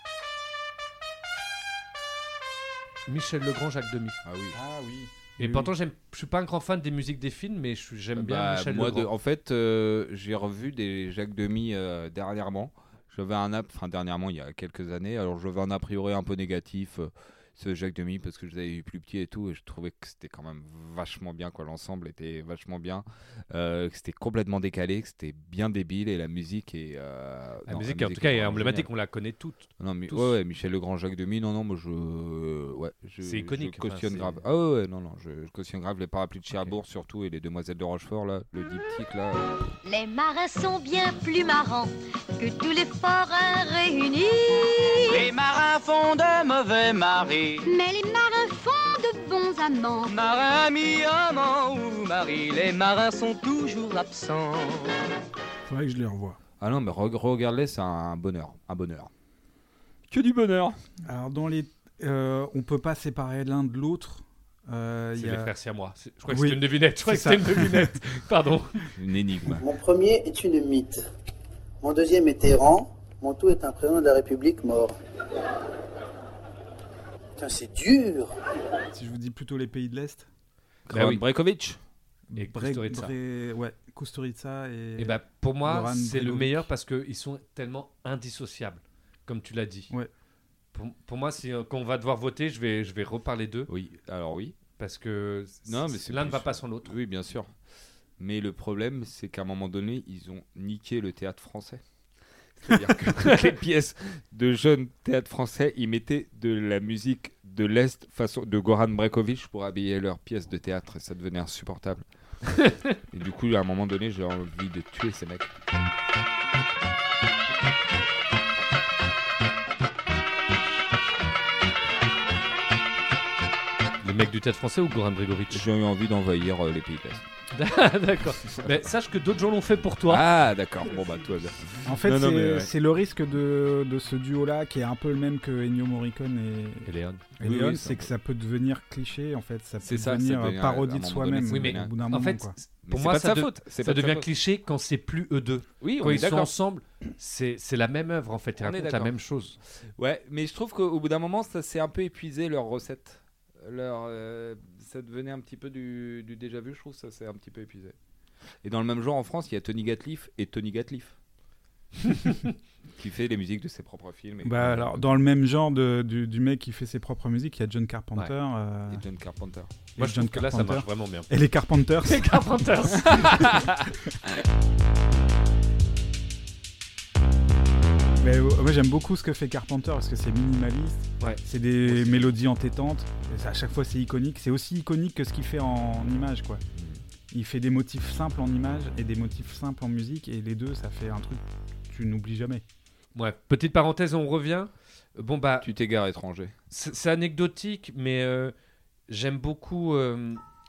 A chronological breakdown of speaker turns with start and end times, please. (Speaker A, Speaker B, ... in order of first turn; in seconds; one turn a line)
Speaker A: 3.1-4.2
Speaker B: 4.2-4.6
Speaker C: 4.5-5.7
Speaker A: 5.4-9.1
Speaker B: 8.2-28.9
Speaker A: 27.7-30.4
Speaker B: 29.8-39.5
Speaker A: 33.2-34.4
Speaker D: 39.8-45.3
Speaker E: 45.1-47.7
Speaker D: 47.6-50.1
Speaker E: 50.0-54.9
Speaker C: 55.6-56.4
Speaker B: 56.6-59.1
Speaker B: 60.1-60.8
Speaker C: 61.0-65.5
Speaker A: 65.2-68.8
Speaker C: 66.3-67.9
Speaker B: 69.0-69.6
Speaker F: 69.5-71.0
Speaker F: 71.8-74.9
Speaker F: 77.4-78.3
Speaker C: 78.9-80.3
Speaker B: 80.9-81.8
Speaker A: 80.9-81.2
Speaker C: 82.3-86.7
Speaker A: 82.3-83.1
Speaker A: 85.0-89.9
Speaker A: 90.7-93.7
Speaker B: 93.7-94.5
Speaker A: 94.8-96.9
Speaker B: 95.7-97.5
Speaker B: 98.2-101.8
Speaker B: 102.5-112.0
Speaker B: 113.1-115.5
Speaker A: 124.0-125.6
Speaker B: 125.5-127.2
Speaker A: 127.5-130.2
Speaker B: 128.4-128.8
Speaker B: 130.1-132.7
Speaker C: 131.8-142.6
Speaker A: 136.8-137.2
Speaker B: 137.4-138.1
Speaker B: 139.8-141.9
Speaker A: 141.5-149.6
Speaker B: 142.8-144.3
Speaker B: 145.8-146.5
Speaker B: 148.6-149.1
Speaker B: 150.0-157.9
Speaker B: 158.6-161.2
Speaker A: 162.1-162.4
Speaker B: 163.0-165.0
Speaker C: 164.4-169.0
Speaker B: 168.9-169.7
Speaker C: 169.9-172.5
Speaker A: 170.0-171.3
Speaker A: 172.0-173.6
Speaker B: 173.1-173.8
Speaker C: 178.2-186.6
Speaker A: 181.2-182.3
Speaker C: 187.3-192.6
Speaker A: 193.1-195.7
Speaker B: 195.6-196.5
Speaker A: 196.7-198.5
Speaker A: 199.1-200.4